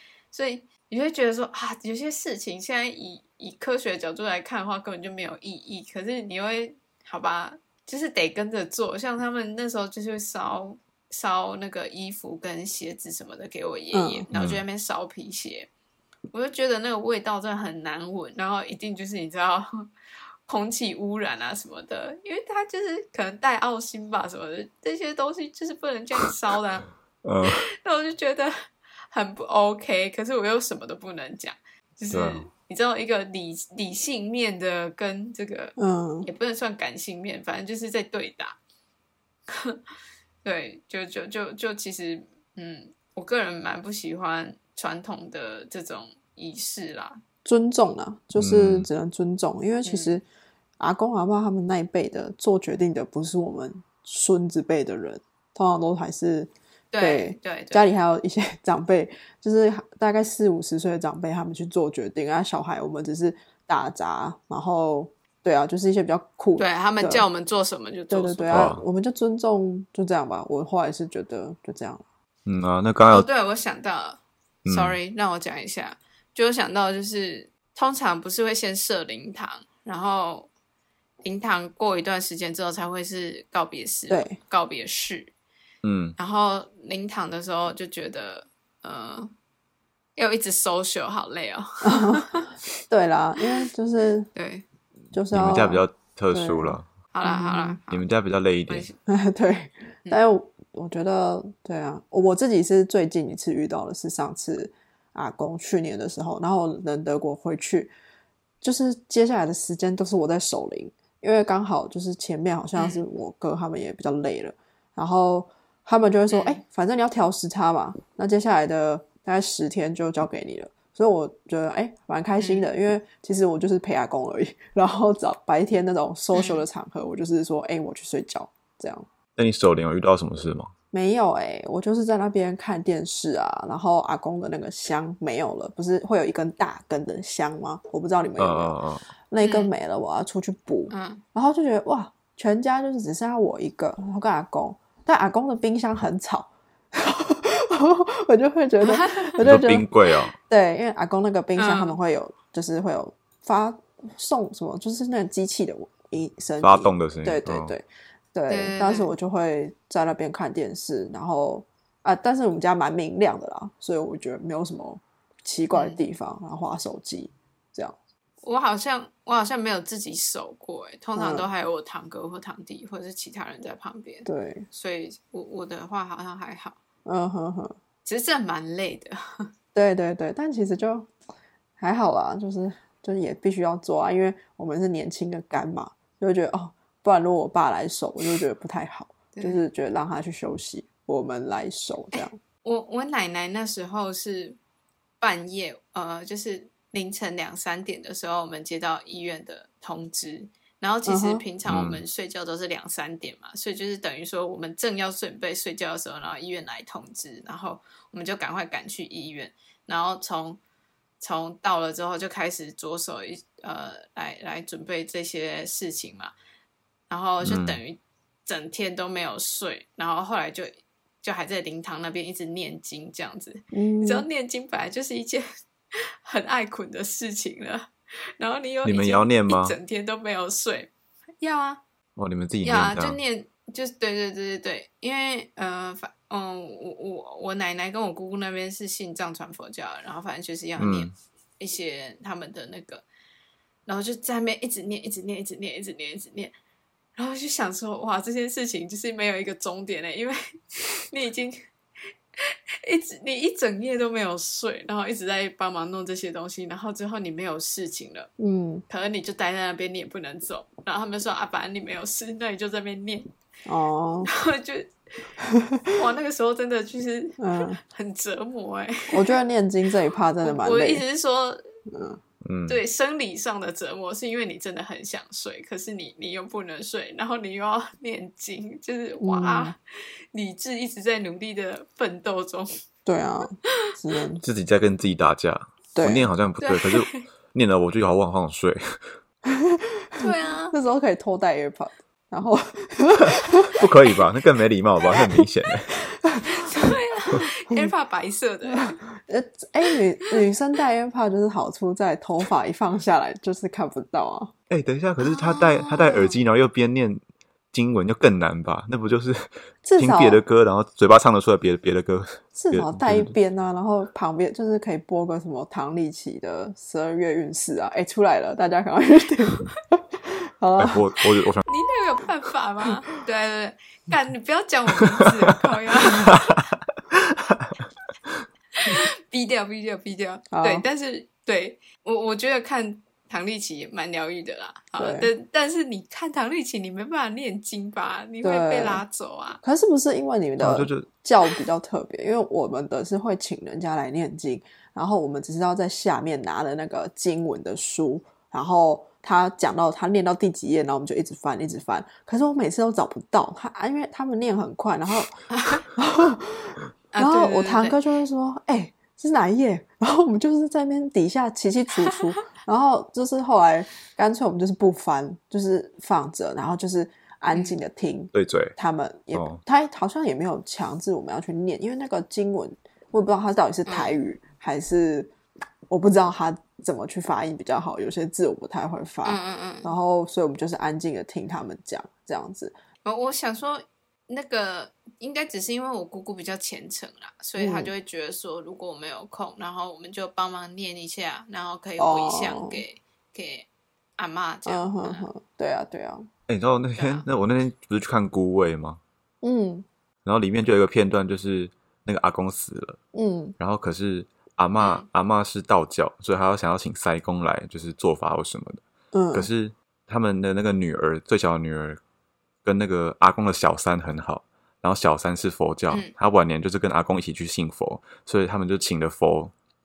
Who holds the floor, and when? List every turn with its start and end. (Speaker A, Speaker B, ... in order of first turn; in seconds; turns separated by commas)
Speaker A: 0.3-15.7, Speaker B: 13.9-14.3, Speaker C: 14.3-14.6, Speaker A: 16.3-19.9, Speaker A: 20.4-26.9, Speaker C: 27.2-27.6, Speaker A: 27.4-28.5, Speaker A: 29.1-38.6, Speaker C: 32.1-32.5, Speaker B: 35.8-36.3, Speaker A: 39.5-39.8, Speaker A: 40.4-47.2, Speaker B: 47.4-50.2, Speaker C: 48.4-48.9, Speaker A: 49.8-50.2, Speaker B: 50.8-67.2, Speaker A: 56.9-57.9, Speaker A: 66.6-68.7, Speaker B: 68.1-72.0, Speaker C: 68.5-68.8, Speaker C: 72.5-73.3, Speaker A: 73.1-80.5, Speaker C: 74.6-75.0, Speaker A: 81.2-85.3, Speaker B: 84.1-84.4, Speaker C: 85.8-86.2, Speaker A: 86.2-89.3, Speaker A: 90.2-92.5, Speaker B: 91.8-94.3, Speaker A: 94.3-94.6, Speaker B: 95.1-97.8, Speaker C: 95.3-96.9, Speaker A: 97.1-98.1, Speaker C: 97.9-98.9, Speaker A: 98.7-99.0, Speaker B: 99.1-107.9, Speaker B: 108.6-129.1, Speaker A: 112.8-113.0, Speaker A: 116.3-116.6, Speaker A: 122.4-122.7, Speaker A: 126.3-126.6, Speaker C: 129.4-130.7, Speaker B: 130.9-138.7, Speaker C: 138.4-139.1, Speaker B: 139.3-149.9, Speaker A: 139.4-139.7, Speaker A: 140.9-141.2, Speaker A: 148.8-149.4, Speaker C: 149.4-150.3, Speaker B: 150.5-167.9, Speaker A: 151.6-152.0, Speaker C: 156.6-157.7, Speaker A: 158.5-159.1, Speaker A: 165.7-166.0, Speaker A: 168.4-176.8, Speaker B: 171.2-171.5, Speaker B: 174.2-174.7, Speaker B: 177.0-177.8, Speaker A: 178.0-179.5, Speaker B: 179.7-181.1, Speaker B: 181.8-192.4, Speaker A: 189.3-189.6, Speaker A: 192.1-194.6, Speaker A: 195.2-210.6, Speaker B: 201.1-201.4, Speaker C: 201.7-202.0, Speaker A: 211.2-216.3, Speaker A: 217.1-225.4, Speaker C: 217.4-217.8, Speaker B: 223.7-224.2, Speaker A: 226.2-231.8, Speaker C: 228.8-229.8, Speaker C: 232.2-233.2, Speaker A: 232.6-243.0, Speaker C: 240.8-241.1, Speaker A: 243.8-246.5, Speaker A: 247.2-251.7, Speaker A: 252.8-258.3, Speaker B: 258.4-258.8, Speaker A: 258.9-263.3, Speaker B: 263.6-264.3, Speaker A: 264.2-265.3, Speaker B: 265.5-265.9, Speaker A: 265.9-269.4, Speaker B: 267.4-267.8, Speaker B: 269.1-271.0, Speaker A: 270.4-271.6, Speaker B: 271.9-272.2, Speaker C: 272.4-272.8, Speaker A: 272.7-279.8, Speaker B: 279.2-279.7, Speaker A: 280.3-282.7, Speaker B: 283.1-284.4, Speaker C: 284.4-289.0, Speaker B: 285.9-286.3, Speaker A: 286.6-287.2, Speaker B: 289.4-293.8, Speaker A: 290.2-290.7, Speaker C: 293.7-296.0, Speaker B: 296.1-296.5, Speaker A: 296.4-299.0, Speaker B: 298.7-304.5, Speaker C: 304.7-307.2, Speaker A: 305.2-306.4, Speaker C: 307.7-313.3, Speaker B: 309.8-310.4, Speaker B: 312.5-321.0, Speaker C: 320.8-321.6, Speaker A: 321.6-326.6, Speaker C: 327.1-327.7, Speaker A: 328.8-339.6, Speaker B: 330.5-330.9, Speaker B: 335.0-335.3, Speaker B: 338.4-339.0, Speaker B: 339.6-355.4, Speaker C: 340.6-341.1, Speaker A: 355.5-355.8, Speaker B: 355.9-375.3, Speaker A: 357.1-358.0, Speaker C: 368.3-368.8, Speaker C: 369.3-369.6, Speaker A: 373.9-374.1, Speaker B: 375.9-382.7, Speaker A: 379.2-379.9, Speaker A: 383.0-395.3, Speaker B: 387.6-387.9, Speaker B: 392.0-392.8, Speaker B: 394.6-396.3, Speaker C: 396.5-399.0, Speaker A: 397.0-397.2, Speaker B: 399.4-399.9, Speaker C: 400.2-403.0, Speaker B: 403.1-403.6, Speaker C: 403.6-408.8, Speaker A: 404.8-405.1, Speaker B: 409.1-409.5, Speaker C: 409.3-412.0, Speaker C: 412.6-419.5